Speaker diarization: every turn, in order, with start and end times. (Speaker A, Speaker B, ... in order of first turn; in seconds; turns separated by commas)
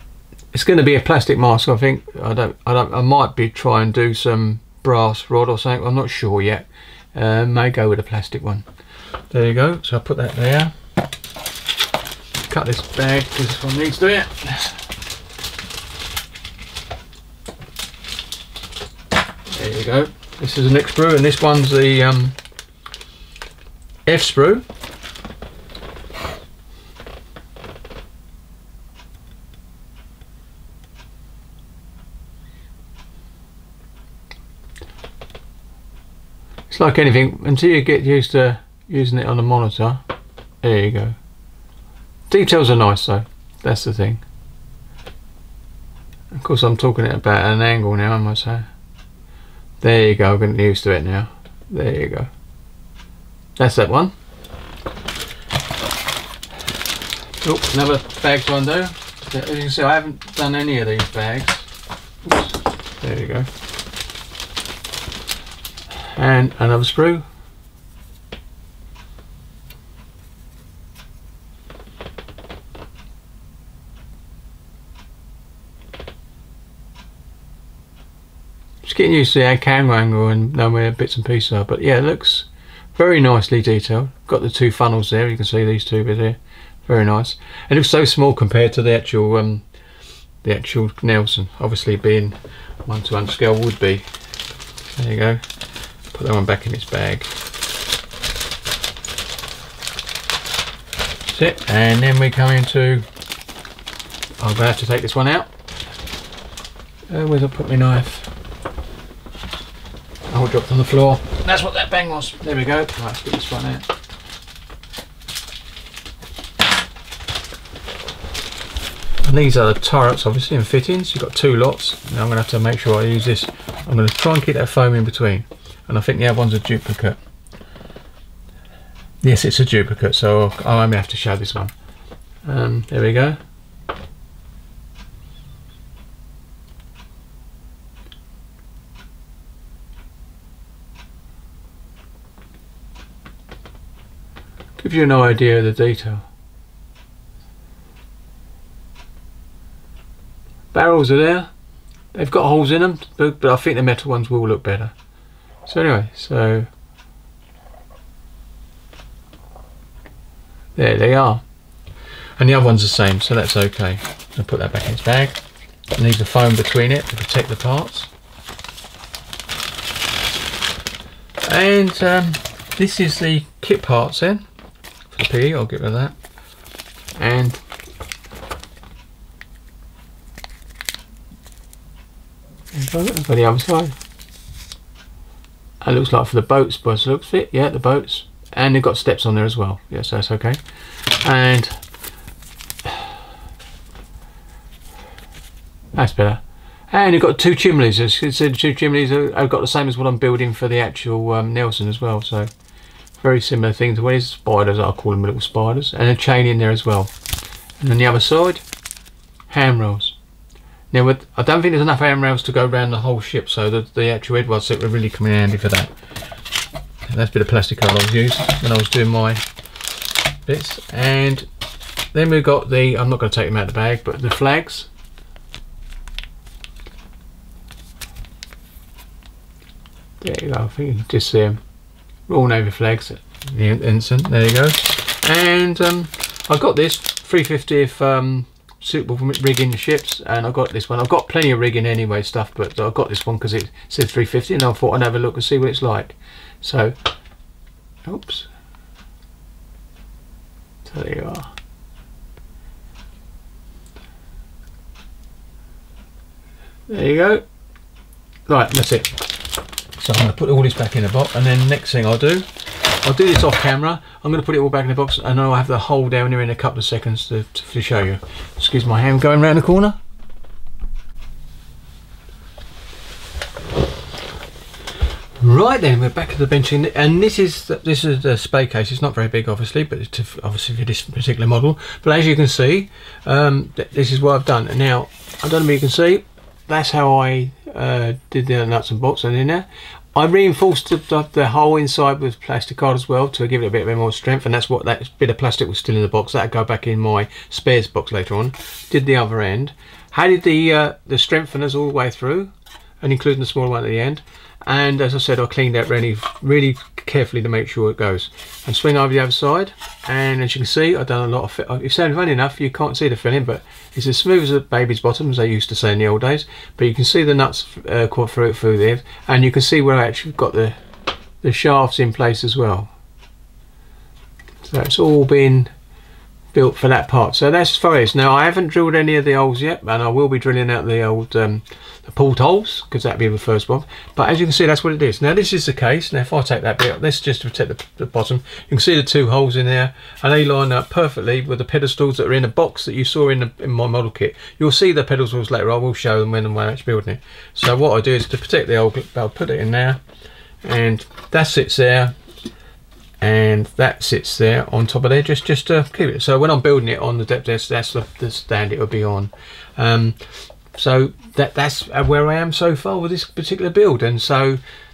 Speaker A: 0.5-8.7, Speaker A: 9.3-10.7, Speaker A: 12.4-14.8, Speaker A: 19.5-22.4, Speaker A: 24.1-24.6, Speaker A: 36.7-40.0, Speaker A: 40.6-41.2, Speaker A: 42.3-44.2, Speaker A: 46.3-48.7, Speaker A: 49.8-52.3, Speaker A: 53.6-54.1, Speaker A: 57.4-61.7, Speaker A: 62.2-63.5, Speaker A: 66.0-67.2, Speaker A: 78.8-89.7, Speaker A: 90.4-94.1, Speaker A: 94.9-95.4, Speaker A: 96.1-97.3, Speaker A: 101.3-103.1, Speaker A: 104.4-105.5, Speaker A: 107.1-108.3, Speaker A: 110.3-113.9, Speaker A: 119.2-127.2, Speaker A: 129.2-131.7, Speaker A: 132.4-133.4, Speaker A: 144.8-146.3, Speaker A: 150.7-151.5, Speaker A: 152.1-154.9, Speaker A: 155.7-156.7, Speaker A: 160.8-161.4, Speaker A: 162.4-165.4, Speaker A: 166.0-168.1, Speaker A: 171.4-174.5, Speaker A: 175.1-176.2, Speaker A: 177.2-177.6, Speaker A: 182.7-184.0, Speaker A: 185.8-191.8, Speaker A: 195.9-202.5, Speaker A: 203.2-207.1, Speaker A: 207.8-208.6, Speaker A: 209.5-210.2, Speaker A: 210.9-215.9, Speaker A: 217.1-219.5, Speaker A: 220.5-221.5, Speaker A: 222.1-224.9, Speaker A: 230.2-231.6, Speaker A: 232.3-247.0, Speaker A: 248.1-248.5, Speaker A: 250.8-251.5, Speaker A: 256.9-257.4, Speaker A: 258.5-259.2, Speaker A: 260.0-262.5, Speaker A: 263.0-270.0, Speaker A: 275.4-320.8, Speaker A: 321.4-322.9, Speaker A: 324.6-325.7, Speaker A: 326.5-350.0, Speaker A: 350.6-352.1, Speaker A: 353.2-364.6